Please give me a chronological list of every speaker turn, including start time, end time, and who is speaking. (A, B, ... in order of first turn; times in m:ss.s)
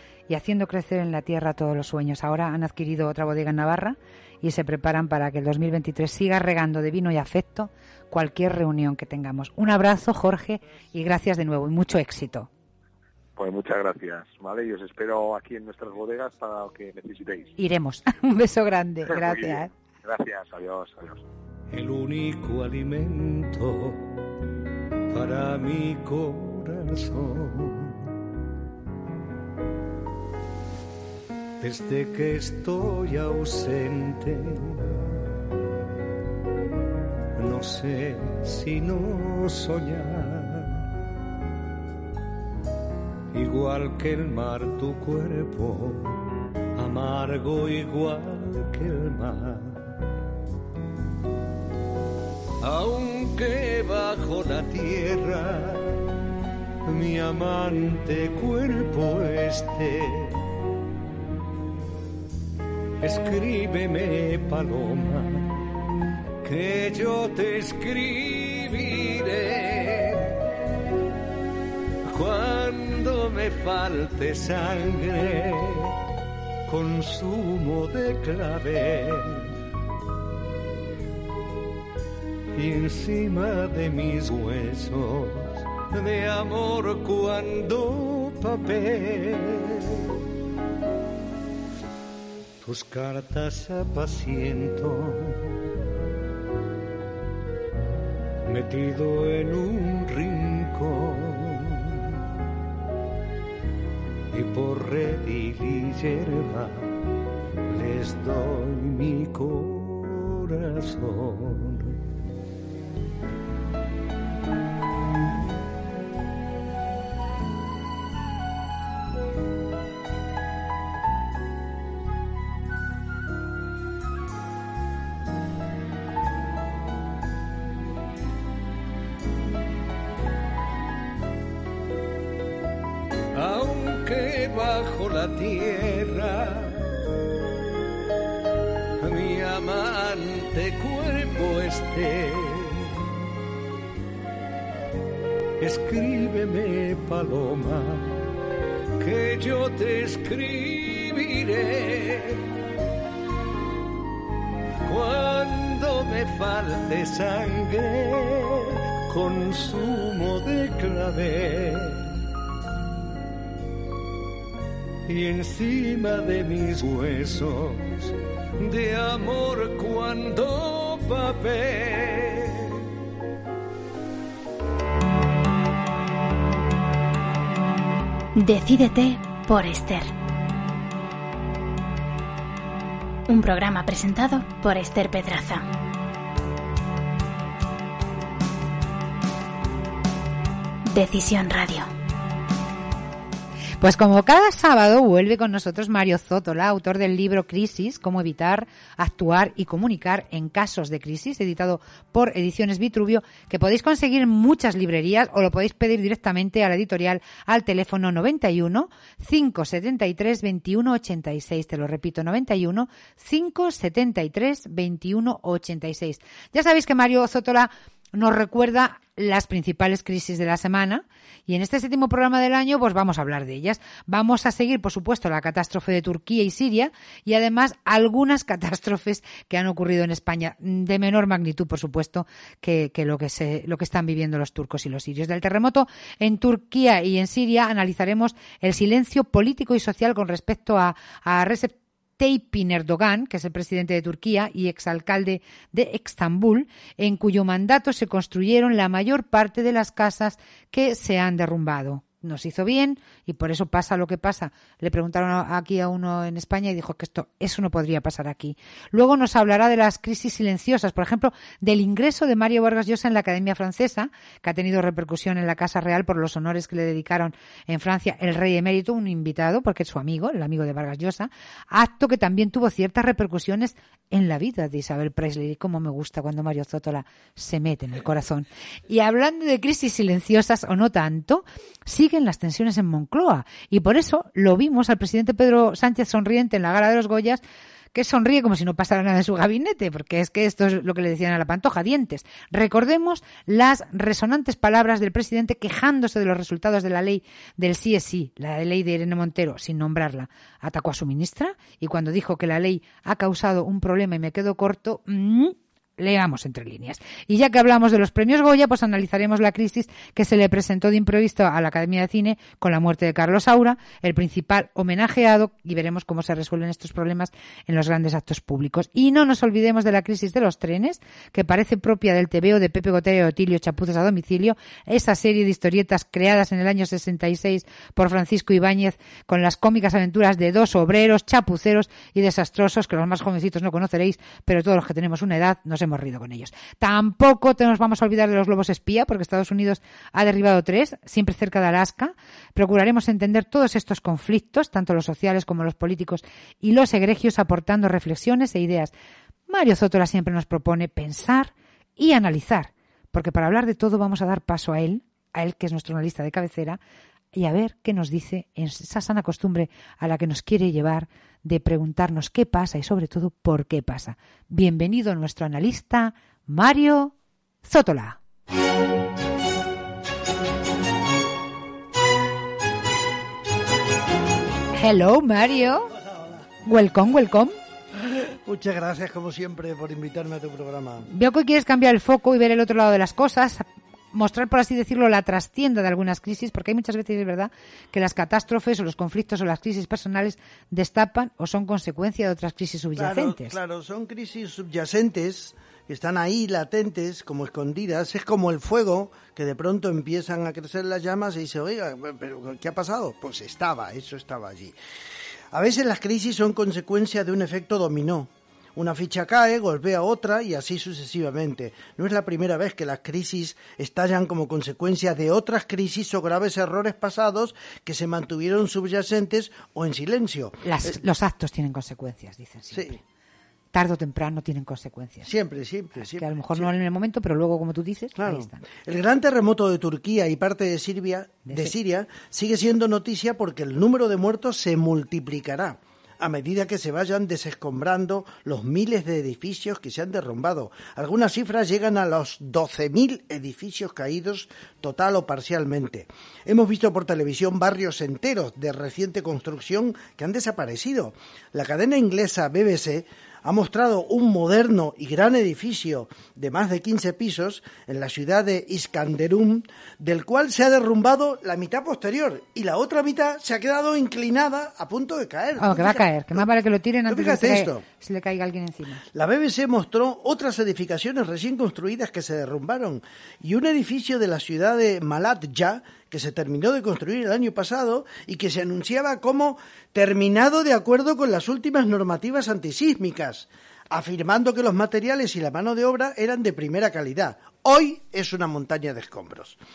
0:00.3-0:12.5 A
0:13.4-0:17.5 B
0:17.6-0:19.7 A
0:19.1-0:21.2 B
0:21.7-0:24.0 C
0:25.1-0:27.9 C
0:31.6-0:35.0 C
0:37.4-0:40.8 C
0:43.3-0:46.1 C
0:46.8-0:49.9 C
0:52.6-0:56.0 C
0:56.9-1:00.4 C
1:03.0-1:05.5 C
1:06.4-1:10.3 C
1:12.1-1:15.9 C
1:16.7-1:19.5 C
1:22.6-1:29.8 C
1:32.6-1:35.5 C
1:38.4-1:41.9 C
1:44.3-1:46.9 C
1:47.7-1:52.0 C
2:13.4-2:17.0 C
2:19.0-2:22.9 C
2:25.6-2:28.2 C
2:29.0-2:32.4 C
2:34.8-2:42.1 C
2:45.1-2:48.1 C
2:48.6-2:52.7 C
2:58.4-3:00.1 D
3:03.3-3:05.7 D
3:10.9-3:11.9 D
3:13.8-4:47.4 A
4:47.9-5:48.9 A
5:49.5-5:56.8 A
5:57.3-6:07.1 A
6:07.6-6:08.2 A
6:14.8-6:15.9 A
6:16.6-6:17.6 A
6:18.2-6:21.1 E
6:21.1-6:33.6 A
6:33.0-6:44.7 E
6:45.5-7:00.9 E
7:00.6-7:02.9 A
7:02.7-7:03.0 E
7:03.7-7:05.3 A
7:05.2-7:06.7 E
7:06.0-7:08.6 A
7:08.2-7:46.4 E
7:11.4-7:11.7 A
7:45.6-7:49.0 A
7:47.1-7:47.8 E
7:49.1-8:09.6 E